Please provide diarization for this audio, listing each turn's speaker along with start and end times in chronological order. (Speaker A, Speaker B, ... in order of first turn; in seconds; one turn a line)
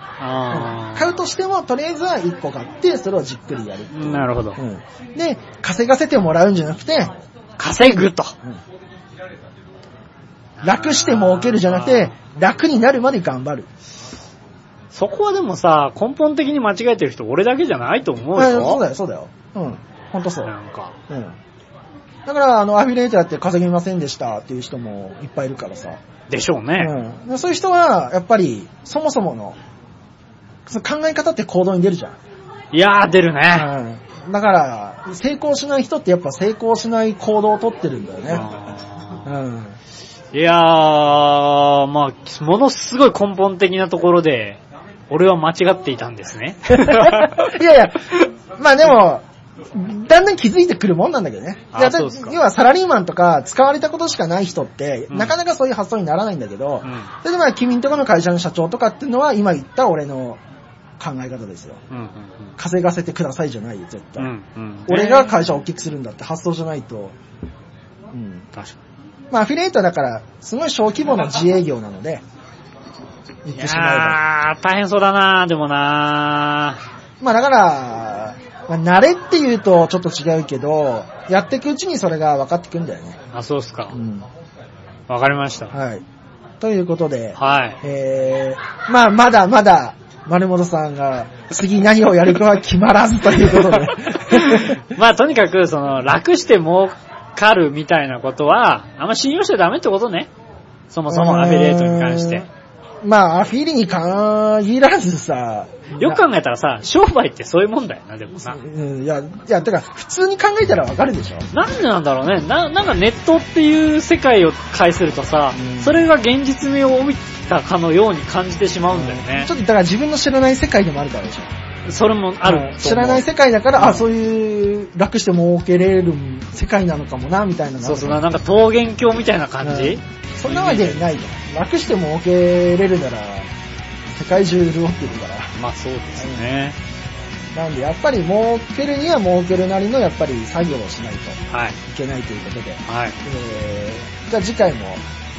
Speaker A: 0.2-1.2
Speaker B: 0.5-7.1
Speaker A: 3.9-4.6
Speaker A: 7.6-8.3
Speaker B: 7.7-8.6
Speaker A: 10.6-12.1
Speaker B: 10.6-13.7
Speaker A: 14.9-18.8
Speaker B: 18.3-20.5
Speaker A: 20.4-21.0
Speaker B: 21.1-21.4
Speaker B: 22.2-26.0
Speaker A: 26.3-26.9
Speaker B: 26.8-29.6
Speaker B: 30.6-32.2
Speaker A: 32.7-33.7
Speaker B: 33.5-38.5
Speaker A: 38.3-39.2
Speaker B: 39.2-39.8
Speaker A: 40.3-47.5
Speaker B: 46.7-60.4
Speaker A: 51.7-52.4
Speaker A: 55.1-55.4
Speaker A: 56.8-57.1
Speaker B: 61.0-61.8
Speaker A: 61.9-62.5
Speaker B: 62.6-64.3
Speaker A: 64.2-65.5
Speaker B: 64.9-67.1
Speaker B: 68.1-68.5
Speaker B: 69.3-72.2
Speaker B: 73.4-74.2
Speaker A: 73.5-76.8
Speaker B: 77.2-83.2
Speaker A: 83.3-84.0
Speaker B: 83.9-84.2
Speaker A: 85.1-85.7
Speaker B: 85.7-86.0
Speaker B: 86.6-94.8
Speaker A: 87.4-87.8
Speaker A: 93.4-100.3
Speaker A: 100.9-102.5
Speaker B: 101.1-102.5
Speaker B: 103.0-106.2
Speaker A: 106.0-108.6
Speaker B: 108.5-111.5
Speaker A: 111.5-119.5
Speaker B: 115.5-116.0
Speaker B: 118.9-121.5
Speaker A: 121.8-123.2
Speaker B: 122.4-128.2
Speaker A: 123.8-124.1
Speaker A: 127.8-131.1
Speaker B: 129.6-133.5
Speaker B: 134.1-135.5
Speaker A: 135.6-136.8
Speaker B: 136.2-136.5
Speaker B: 137.5-145.0
Speaker A: 141.5-141.8
Speaker A: 142.9-143.2